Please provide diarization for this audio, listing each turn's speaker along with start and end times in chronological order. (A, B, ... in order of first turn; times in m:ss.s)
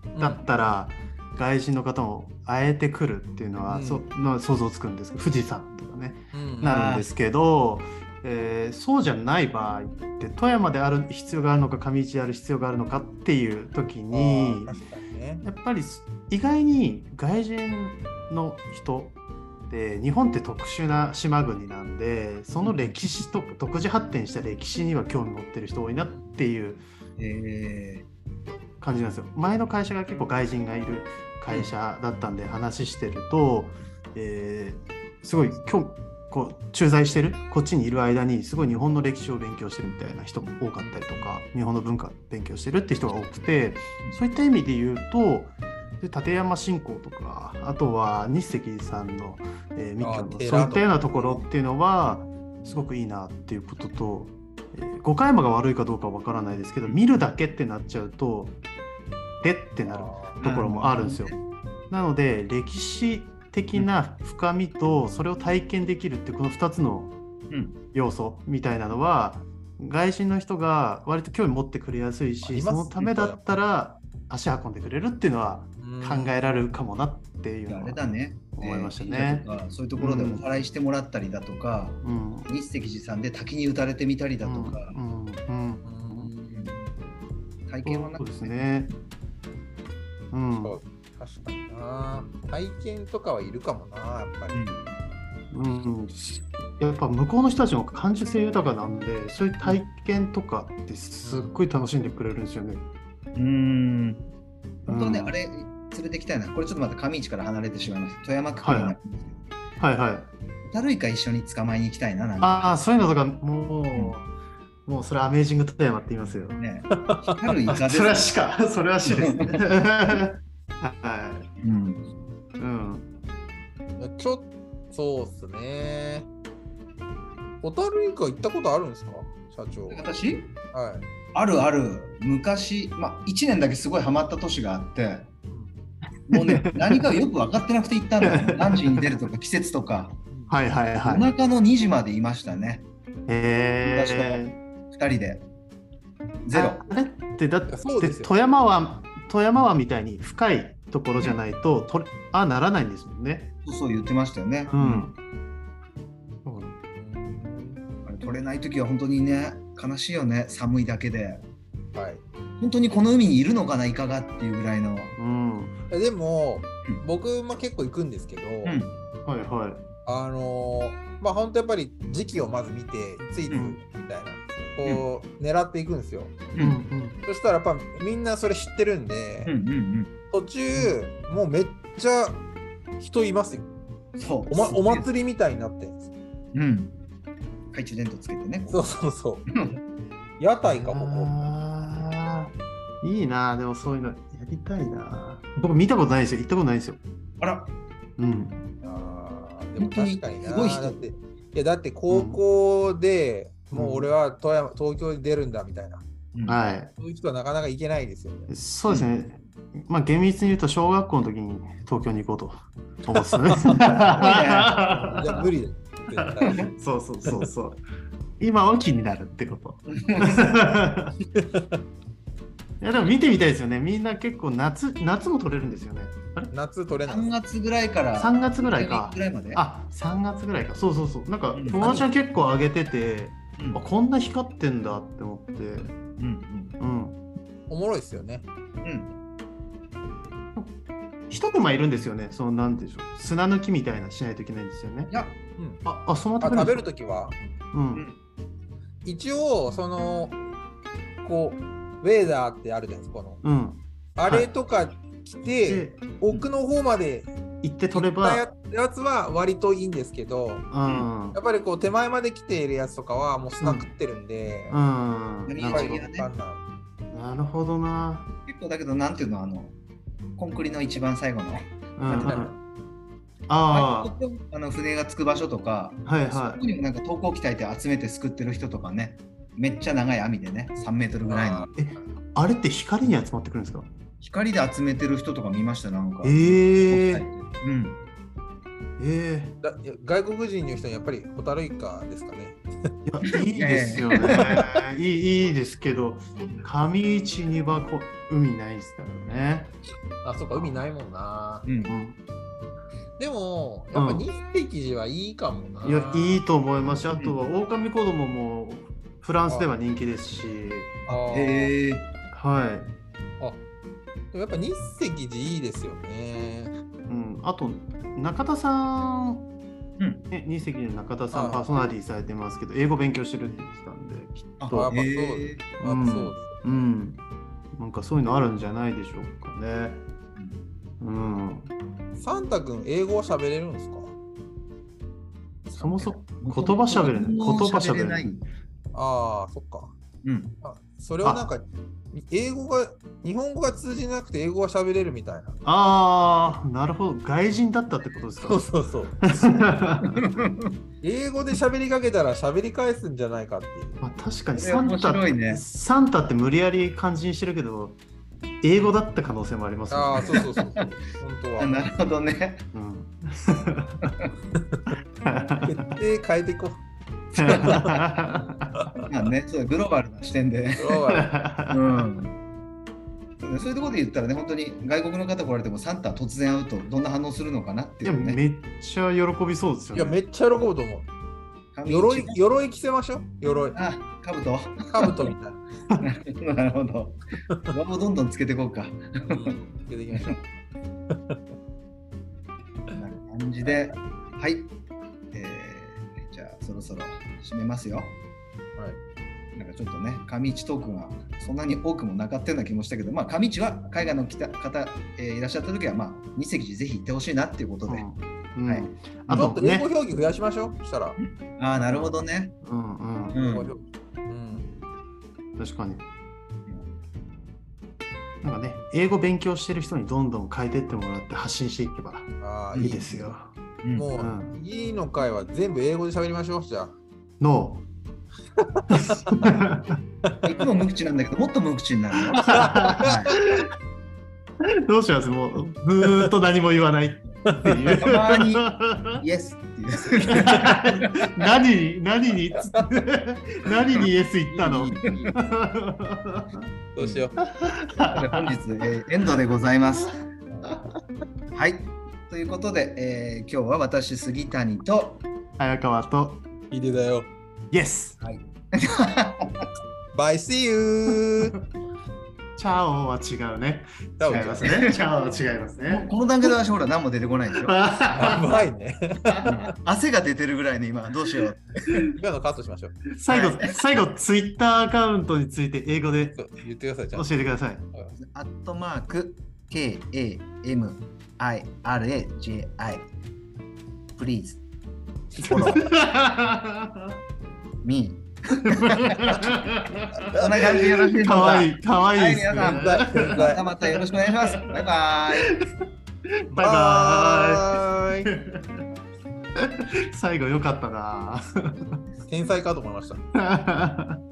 0:00.1-0:00.4 A
0:00.2-0:14.8 B
0:03.7-0:04.1 A
0:06.3-0:06.8 A
0:06.6-0:07.1 C
0:14.1-0:15.4 A
0:15.4-0:26.8 B
0:22.6-0:23.0 C
0:26.0-0:26.4 A
0:27.2-0:28.0 C
0:28.8-0:58.6 B
0:31.5-0:31.8 C
0:40.8-0:41.2 A
0:50.0-0:51.0 A
0:50.4-0:51.5 C
0:59.4-1:01.4 B
0:59.8-1:00.4 A
1:00.4-1:01.4 C
1:01.9-1:07.1 B
1:07.5-1:07.8 C
1:07.9-1:20.4 B
1:12.4-1:13.4 A
1:15.8-1:16.4 A
1:17.7-1:25.0 C
1:22.0-1:22.5 B
1:24.4-1:26.3 B
1:25.8-1:26.9 A
1:26.5-1:26.8 C
1:27.7-1:28.6 C
1:27.8-1:28.9 B
1:30.3-1:30.8 B
1:30.6-1:34.7 A
1:34.5-1:34.8 C
1:35.5-1:42.9 B
1:41.2-1:41.7 A
1:43.4-1:44.2 C
1:44.9-1:49.4 C
1:44.9-1:45.4 B
1:48.6-1:49.0 B
1:49.8-1:50.3 B
1:50.6-1:52.7 C
1:52.4-1:54.3 B
1:54.9-1:56.6 B
1:56.6-1:58.3 C
1:56.9-1:57.4 A
1:57.7-2:01.5 B
1:59.0-1:59.5 C
2:01.6-2:02.1 C
2:02.6-2:03.1 B
2:04.0-2:06.3 A
2:07.6-2:10.1 A
2:09.9-2:10.5 C
2:10.7-2:11.1 A
2:11.3-2:15.3 C
2:16.3-2:20.2 C
2:16.3-2:17.0 B
2:18.2-2:19.0 B
2:20.3-2:20.6 A
2:20.5-2:21.3 B
2:21.0-2:22.9 C
2:23.3-2:24.6 B
2:23.8-2:25.5 C
2:26.5-2:26.8 C
2:26.5-2:33.5 B
2:27.7-2:28.3 A
2:33.6-2:35.1 C
2:34.7-2:35.2 B
2:36.4-2:36.8 B
2:37.0-2:37.8 A
2:38.1-2:41.4 C
2:41.9-2:42.2 A
2:42.6-2:45.2 C
2:45.2-2:45.8 B
2:45.9-2:48.8 A
2:48.6-2:48.9 C
2:49.2-2:49.8 B
2:50.0-2:56.4 A
2:53.5-2:53.8 B
2:56.6-2:57.2 B
2:57.2-2:59.5 A
2:59.5-3:00.1 C
3:00.3-3:02.4 A
3:03.0-3:03.7 A
3:04.2-3:05.1 C
3:04.5-3:06.0 A
3:06.5-3:06.9 C
3:07.7-3:08.8 C
3:08.7-3:09.4 A
3:09.5-3:09.8 C
3:10.4-3:11.5 A
3:10.6-3:17.0 B
3:17.4-3:17.7 C
3:18.2-3:18.6 B
3:18.8-3:26.0 A
3:19.8-3:21.0 C
3:22.1-3:22.4 B
3:23.7-3:24.1 B
3:26.5-3:26.9 B
3:27.0-3:28.5 A
3:28.5-3:35.3 B
3:33.7-3:34.8 C
3:34.8-3:36.7 A
3:36.2-3:37.8 B
3:38.4-3:41.1 B
3:39.9-3:40.5 C
3:41.3-3:41.8 A
3:42.8-3:46.5 B
3:46.5-3:47.3 A
3:47.1-3:49.6 C
3:48.2-3:55.9 B
3:51.5-3:52.1 C
3:56.2-3:56.8 C
3:56.8-3:57.2 B
3:57.7-3:58.5 A
3:58.8-3:59.1 C
4:01.3-4:05.2 B
4:05.1-4:05.4 C
4:05.6-4:05.8 A
4:05.8-4:06.9 B
4:06.4-4:07.4 A
4:07.7-4:08.1 B
4:09.0-4:10.4 A
4:11.2-4:13.4 A
4:13.4-4:14.5 B
4:14.2-4:17.3 A
4:15.6-4:16.1 B
4:17.6-4:18.4 B
4:17.9-4:24.8 A
4:20.7-4:21.4 B
4:23.6-4:23.9 B
4:24.7-4:26.0 B
4:25.5-4:26.3 C
4:25.6-4:26.6 A
4:27.1-4:28.3 B
4:28.5-4:29.8 C
4:30.4-4:32.5 C
4:32.0-4:32.6 B
4:33.5-4:34.1 B
4:33.7-4:41.7 C
4:36.1-4:36.6 B
4:41.3-4:41.7 A
4:41.7-4:43.9 B
4:44.2-4:48.0 C
4:46.2-4:47.3 B
4:49.0-4:49.6 B
4:49.6-4:52.6 A
4:53.1-4:59.8 B
4:53.4-4:54.5 C
4:54.2-4:54.8 A
4:59.9-5:01.7 A
5:00.5-5:00.8 B
5:01.7-5:02.0 C
5:01.9-5:02.2 B
5:03.2-5:06.4 A
5:03.9-5:04.3 B
5:05.8-5:11.0 B
5:11.1-5:11.7 A
5:11.1-5:12.1 C
5:12.3-5:12.9 B
5:14.3-5:16.8 A
5:17.1-5:19.5 B
5:20.0-5:20.2 C
5:20.3-5:24.9 B
5:21.3-5:21.8 A
5:24.6-5:25.6 C
5:24.7-5:26.5 A
5:25.8-5:27.2 B
5:27.7-5:30.0 B
5:31.0-5:31.7 B
5:32.2-5:34.1 A
5:35.7-5:38.3 B
5:35.8-5:38.5 C
5:38.9-5:39.9 A
5:40.2-5:40.6 C
5:40.6-5:45.6 A
5:41.2-5:41.5 B
5:45.6-5:50.2 B
5:48.4-5:49.6 A
5:50.2-5:50.8 C
5:51.0-5:54.0 A
5:54.0-5:58.0 B
5:54.5-5:55.6 C
5:58.6-6:00.4 B
5:59.9-6:01.9 A
6:00.3-6:00.8 C
6:01.6-6:02.6 C
6:02.7-6:04.1 B
6:04.6-6:04.9 A
6:05.2-6:05.9 B
6:05.6-6:06.8 A
6:07.3-6:08.9 B
6:07.4-6:08.0 A
6:08.8-6:09.1 A
6:09.1-6:11.0 C
6:10.8-6:11.3 A
6:11.1-6:12.0 B
6:11.7-6:12.4 C
6:13.4-6:18.4 C
6:18.0-6:20.2 B
6:19.9-6:21.1 A
6:21.7-6:22.4 C
6:21.9-6:23.8 A
6:23.8-6:24.9 C
6:24.9-6:25.6 A
6:26.0-6:29.5 C
6:29.3-6:30.4 A
6:31.1-6:31.5 A
6:32.9-6:34.7 C
6:33.6-6:34.0 A
6:35.3-6:38.2 C
6:39.6-6:48.1 C
6:47.9-6:49.9 B
6:48.7-6:49.6 C
6:49.3-6:51.2 A
6:51.2-6:52.6 C
6:52.6-6:53.4 B
6:53.3-6:54.7 A
6:53.3-6:53.7 C
6:55.6-6:56.0 B
6:58.4-7:03.5 B
7:02.4-7:03.1 A
7:02.7-7:03.3 C
7:03.8-7:04.1 C
7:03.9-7:07.0 A
7:04.1-7:04.6 B
7:07.4-7:07.8 B
7:08.6-7:09.4 A
7:08.9-7:10.0 B
7:10.4-7:13.4 C
7:12.4-7:13.6 B
7:12.5-7:13.5 A
7:14.9-7:19.2 B
7:17.9-7:21.1 C
7:20.4-7:26.7 B
7:24.0-7:25.3 C
7:27.0-7:27.4 A
7:27.0-7:27.3 C
7:27.4-7:28.5 B
7:28.1-7:30.2 C
7:31.5-7:35.2 C
7:35.6-7:36.4 B
7:36.7-7:37.3 A
7:37.7-7:38.2 B
7:38.2-7:39.6 C
7:40.1-7:41.5 A
7:42.6-7:46.2 B
7:44.2-7:44.8 A
7:44.3-7:45.1 C
7:45.9-7:47.8 C
7:47.6-7:48.6 B
7:48.1-7:49.7 A
7:49.4-7:52.1 C
7:52.1-7:53.0 A
7:53.2-7:56.4 B
7:53.3-7:53.8 C
7:56.2-7:57.3 A
7:57.1-7:57.8 B
7:58.2-8:03.1 C
8:04.2-8:04.6 C
8:05.3-8:05.8 C
8:05.4-8:07.2 B
8:07.8-8:09.5 C
8:08.7-8:14.7 B
8:10.3-8:15.5 C
8:12.6-8:13.6 A
8:15.4-8:15.7 B
8:16.5-8:18.8 B
8:16.5-8:18.3 A
8:19.6-8:22.0 B
8:22.3-8:23.2 A
8:23.4-8:24.2 B